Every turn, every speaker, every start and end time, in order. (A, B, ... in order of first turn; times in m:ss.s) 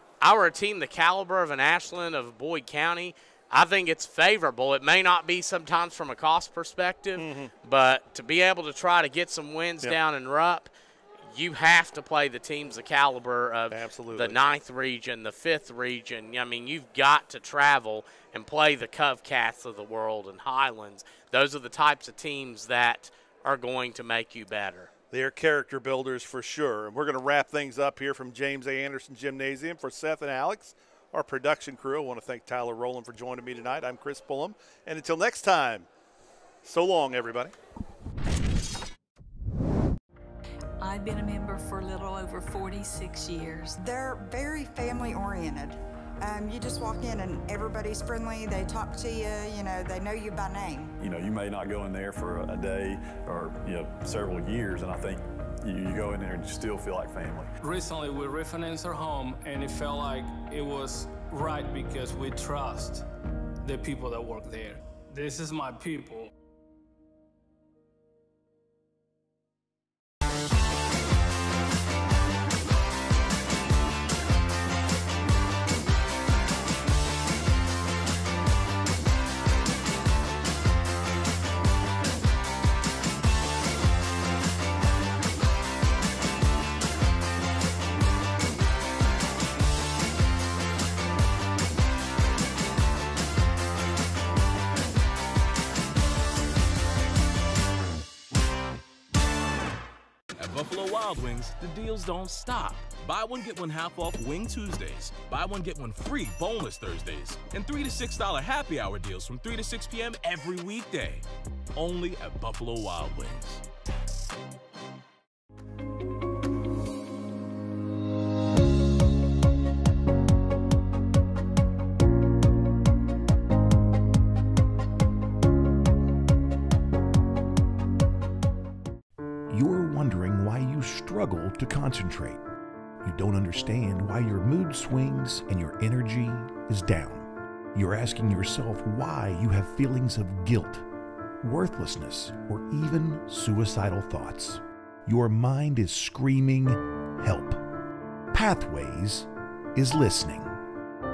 0:00.2-0:10.7 A
0:07.2-0:07.5 B
0:11.3-0:24.9 A
0:13.7-0:14.4 B
0:25.1-0:35.9 B
0:36.6-0:37.6 B
0:40.8-0:43.8 C
0:43.8-0:50.9 D
0:51.0-0:57.6 E
0:57.6-1:03.1 F
1:03.6-1:06.3 F
1:40.4-1:53.6 G
2:09.5-2:12.4 H
2:13.0-2:20.9 H
2:21.4-2:27.6 H
2:28.3-2:30.6 H